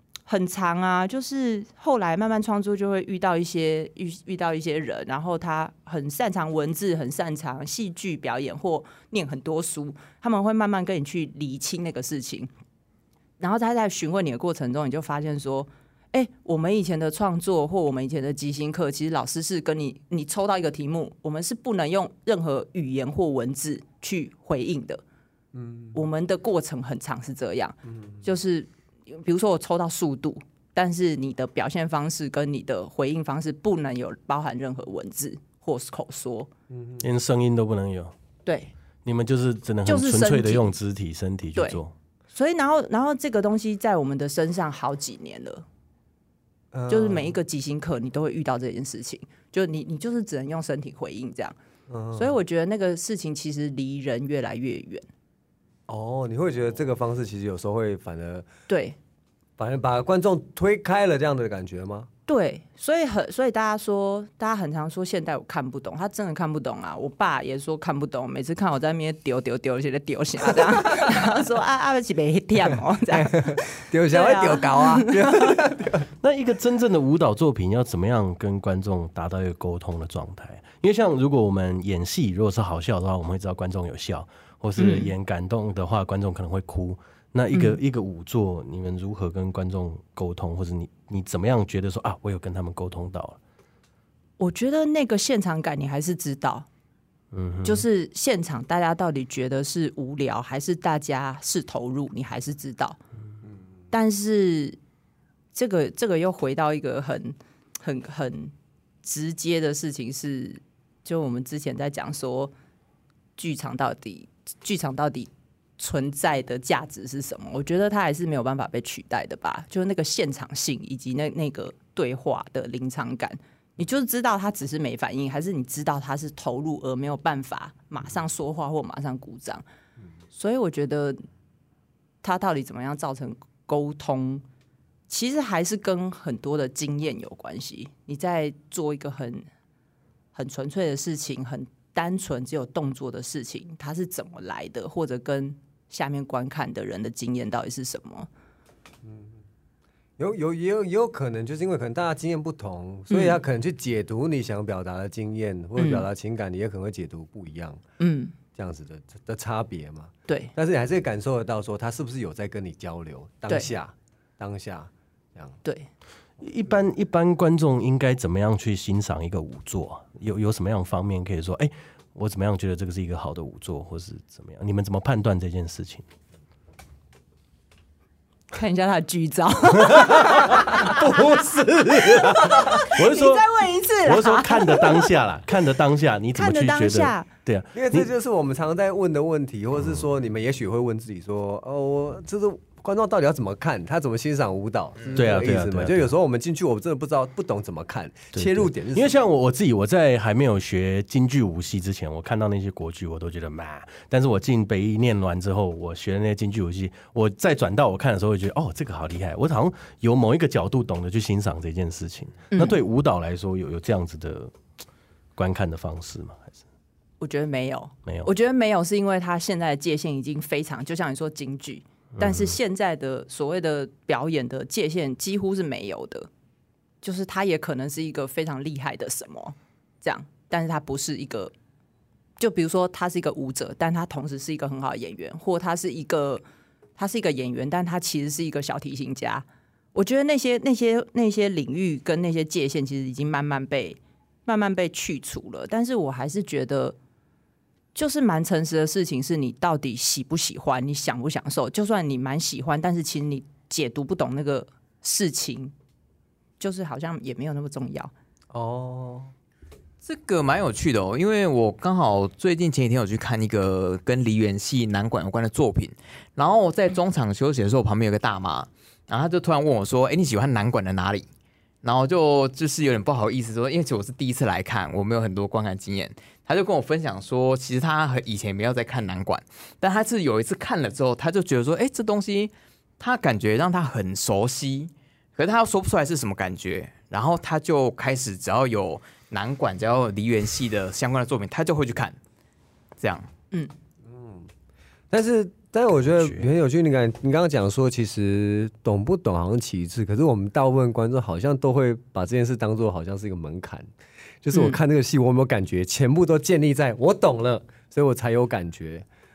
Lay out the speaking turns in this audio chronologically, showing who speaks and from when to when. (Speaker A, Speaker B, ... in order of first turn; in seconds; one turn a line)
Speaker A: 0.3-12.5
Speaker A: 13.4-25.0
Speaker B: 25.5-26.0
Speaker A: 25.9-36.5
Speaker B: 27.9-28.2
Speaker B: 36.7-37.0
Speaker C: 37.0-38.1
Speaker A: 38.5-38.7
Speaker C: 39.0-41.9
Speaker A: 39.9-40.7
Speaker A: 42.3-45.6
Speaker B: 46.7-47.4
Speaker A: 46.9-51.5
Speaker B: 51.9-52.3
Speaker A: 52.1-55.0
Speaker B: 55.9-58.5
Speaker A: 58.7-59.0
Speaker B: 59.6-62.1
Speaker A: 62.3-75.6
Speaker B: 73.1-76.1
Speaker C: 76.2-93.4
Speaker A: 84.8-85.1
Speaker A: 87.5-87.8
Speaker A: 94.4-96.7
Speaker C: 97.3-97.8
Speaker A: 97.6-103.0
Speaker A: 103.9-104.8
Speaker A: 105.5-108.5
Speaker A: 109.0-112.5
Speaker A: 113.4-129.6
Speaker A: 130.3-131.2
Speaker A: 132.2-134.4
Speaker A: 135.1-139.4
Speaker A: 140.3-148.3
Speaker B: 149.0-149.4
Speaker B: 150.2-157.8
Speaker A: 153.1-153.4
Speaker A: 155.8-156.1
Speaker A: 158.0-158.3
Speaker B: 158.5-165.6
Speaker A: 160.3-160.5
Speaker C: 166.4-176.0
Speaker A: 178.5-181.2
Speaker C: 179.8-183.5
Speaker A: 182.1-185.1
Speaker C: 184.0-188.1
Speaker A: 186.3-187.3
Speaker B: 187.7-199.1
Speaker C: 195.1-196.1
Speaker C: 198.3-214.5
Speaker A: 212.5-212.8
Speaker C: 215.3-216.5
Speaker A: 217.2-226.3
Speaker C: 222.2-222.6
Speaker A: 227.0-231.5
Speaker A: 232.4-236.4
Speaker A: 236.9-246.9
Speaker A: 247.9-255.7
Speaker A: 256.6-258.1
Speaker B: 258.5-259.3
Speaker D: 260.0-271.3
Speaker D: 271.8-292.2
Speaker D: 293.0-293.3
Speaker B: 294.0-294.5
Speaker B: 295.1-303.9
Speaker C: 296.2-296.4
Speaker B: 304.4-309.1
Speaker A: 304.5-304.8